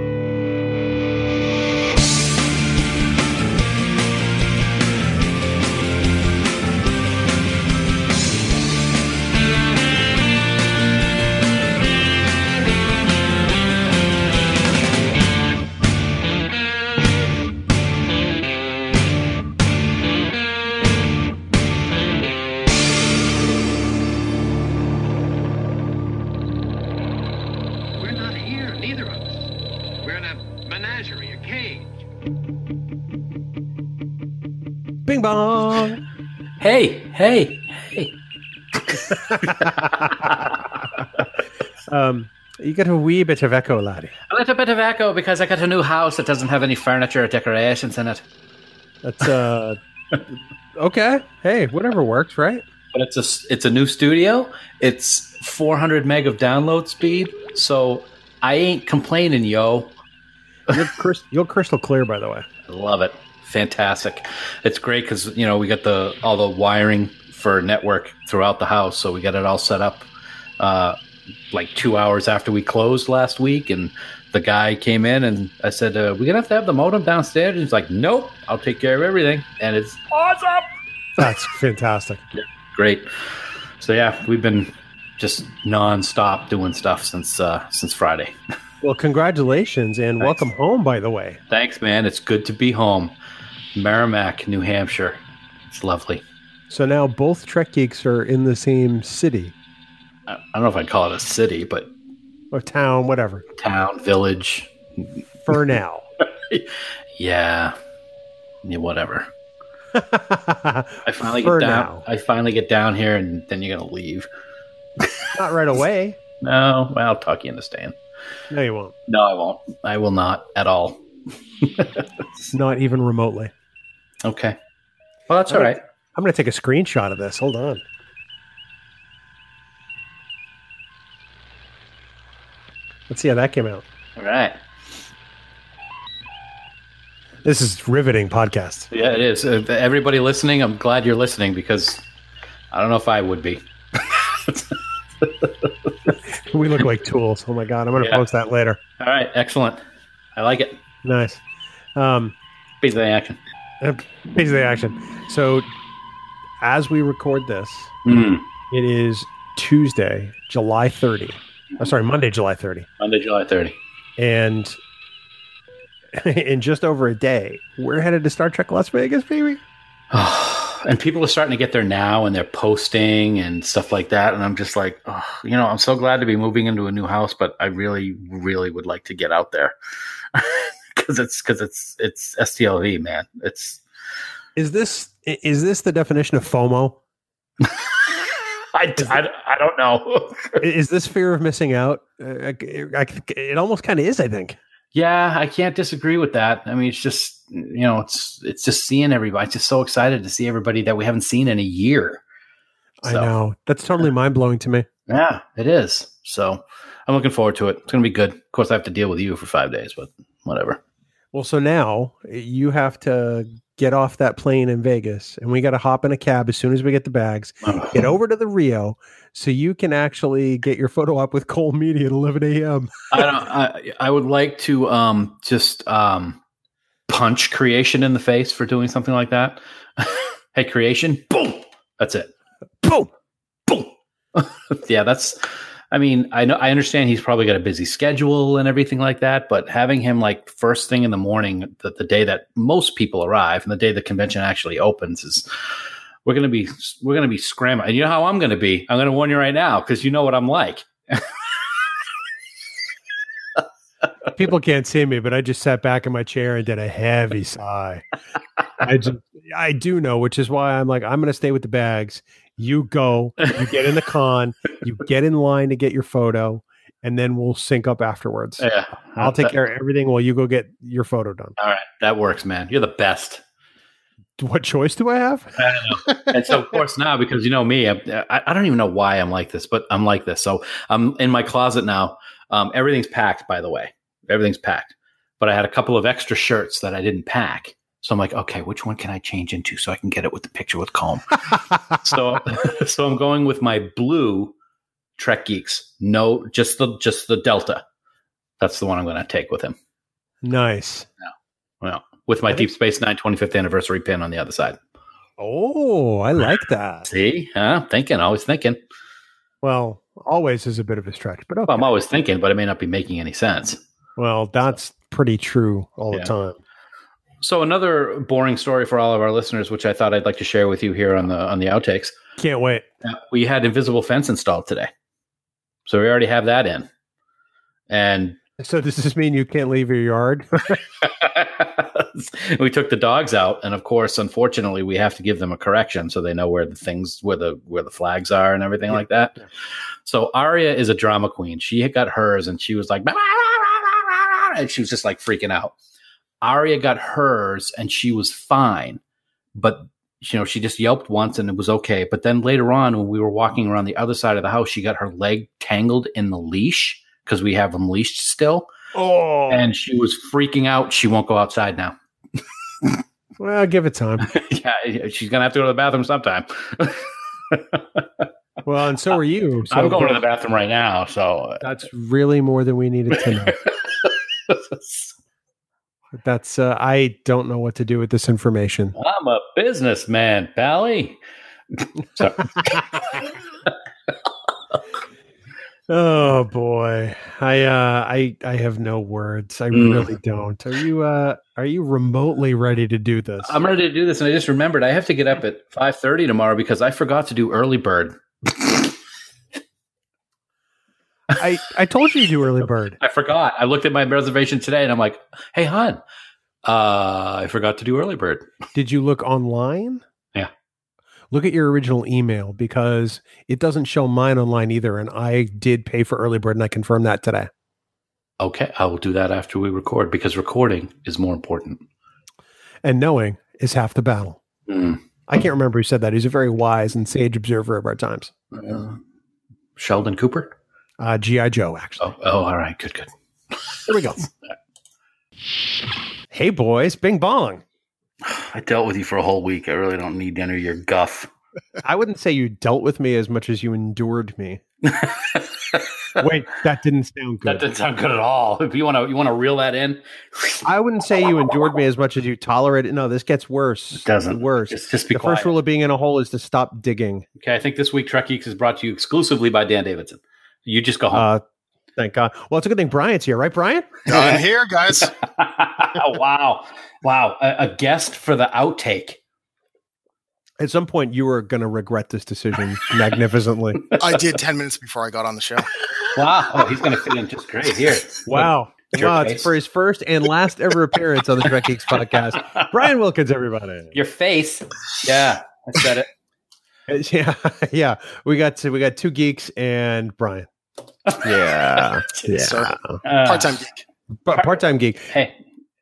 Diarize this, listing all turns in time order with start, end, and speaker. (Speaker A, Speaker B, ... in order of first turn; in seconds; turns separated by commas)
Speaker A: 28.0-31.9, Speaker B: 35.1-36.0, Speaker C: 36.6-38.1, Speaker C: 38.8-40.8, Speaker B: 39.3-41.1, Speaker B: 41.9-44.1, Speaker C: 44.3-48.2, Speaker B: 49.0-49.8, Speaker B: 50.8-52.6, Speaker C: 52.9-60.0, Speaker B: 60.7-62.5, Speaker C: 62.7-70.1, Speaker C: 70.6-71.0, Speaker C: 71.5-80.7, Speaker B: 81.2-82.2, Speaker C: 82.3-83.1, Speaker C: 83.8-88.3, Speaker B: 88.8-91.4, Speaker C: 91.5-93.1, Speaker C: 93.7-96.2, Speaker B: 96.7-99.5, Speaker C: 100.3-101.9, Speaker B: 102.5-103.4, Speaker C: 103.6-104.7, Speaker B: 105.5-106.1, Speaker C: 106.5-107.8, Speaker C: 108.6-109.3, Speaker B: 109.9-112.0, Speaker C: 111.0-114.3, Speaker C: 115.0-115.3, Speaker B: 115.4-116.2, Speaker C: 116.4-118.0, Speaker B: 118.5-118.9, Speaker C: 119.1-121.0, Speaker C: 121.6-122.0, Speaker B: 122.5-123.5, Speaker C: 124.2-124.6, Speaker C: 125.3-125.8, Speaker B: 125.5-127.8, Speaker B: 133.1-133.8, Speaker C: 134.2-134.6, Speaker B: 137.4-138.9, Speaker C: 138.9-142.0, Speaker C: 142.7-145.9, Speaker B: 146.4-148.8, Speaker C: 148.0-148.2, Speaker C: 149.0-149.8, Speaker C: 150.4-150.8, Speaker B: 151.0-151.4, Speaker B: 151.9-152.3, Speaker C: 152.8-153.4, Speaker B: 153.8-155.7, Speaker B: 156.6-157.9, Speaker C: 158.1-158.4, Speaker B: 158.7-162.9, Speaker C: 163.0-163.8, Speaker B: 164.2-164.8, Speaker B: 166.1-169.6, Speaker C: 170.1-179.8, Speaker C: 180.3-183.8, Speaker B: 184.6-187.0, Speaker C: 188.7-190.6, Speaker B: 190.6-194.6, Speaker C: 194.9-202.2, Speaker B: 203.0-204.9, Speaker C: 203.1-203.3, Speaker C: 205.1-210.8, Speaker B: 211.3-223.3, Speaker C: 217.6-218.1, Speaker C: 223.1-226.4, Speaker C: 227.1-232.3, Speaker B: 232.8-233.1, Speaker C: 233.7-245.5, Speaker C: 246.2-251.3, Speaker B: 254.4-258.0, Speaker B: 258.8-268.6, Speaker C: 268.6-269.6, Speaker B: 269.2-271.6, Speaker C: 271.6-273.4, Speaker B: 274.4-276.5, Speaker C: 275.6-294.5, Speaker C: 295.2-297.8, Speaker C: 298.6-299.8, Speaker B: 300.4-301.1, Speaker C: 301.8-304.8, Speaker B: 305.4-307.1, Speaker C: 307.1-308.8, Speaker B: 309.6-311.9, Speaker C: 311.7-313.8, Speaker B: 314.2-316.6, Speaker C: 317.4-322.1, Speaker B: 322.4-322.9, Speaker C: 323.0-324.9, Speaker C: 325.9-326.9, Speaker C: 327.9-328.4, Speaker B: 328.6-330.8, Speaker C: 331.0-339.4, Speaker B: 338.9-339.4, Speaker C: 340.1-345.7, Speaker C: 346.4-349.0, Speaker C: 349.6-358.7, Speaker B: 358.9-359.7, Speaker C: 359.5-361.9, Speaker B: 363.4-364.3, Speaker C: 364.2-368.2, Speaker B: 368.6-370.2, Speaker C: 369.7-371.6, Speaker B: 371.6-373.6, Speaker C: 373.6-375.1, Speaker B: 376.1-378.9, Speaker C: 378.9-381.2, Speaker C: 381.8-383.7, Speaker B: 385.9-393.6, Speaker C: 389.7-390.1, Speaker C: 393.4-398.9, Speaker B: 401.4-403.0, Speaker C: 403.0-406.0, Speaker C: 406.6-408.5, Speaker B: 408.8-410.0, Speaker B: 411.3-417.5, Speaker C: 418.4-421.8, Speaker B: 422.8-424.4, Speaker C: 424.7-425.0, Speaker B: 425.3-428.3, Speaker C: 428.5-429.0, Speaker C: 429.8-430.5, Speaker B: 431.0-432.1, Speaker C: 432.0-433.1, Speaker B: 433.9-434.2, Speaker B: 436.3-437.6, Speaker C: 438.2-441.3, Speaker B: 441.8-444.6, Speaker C: 444.9-446.2, Speaker B: 446.2-447.7, Speaker C: 447.4-450.6, Speaker B: 450.6-457.2, Speaker C: 454.0-455.5, Speaker C: 457.4-461.3, Speaker B: 461.1-461.4, Speaker B: 461.9-463.9, Speaker D: 464.1-465.1, Speaker C: 464.1-464.4, Speaker C: 465.4-469.2, Speaker B: 470.6-473.8, Speaker D: 473.9-475.7, Speaker C: 476.1-479.5, Speaker B: 478.2-483.9, Speaker C: 483.9-486.1, Speaker B: 486.9-490.5, Speaker C: 491.1-492.4, Speaker B: 491.2-493.0, Speaker D: 492.3-492.7, Speaker C: 493.0-493.6, Speaker D: 493.2-493.8, Speaker B: 494.2-495.1, Speaker C: 494.3-495.3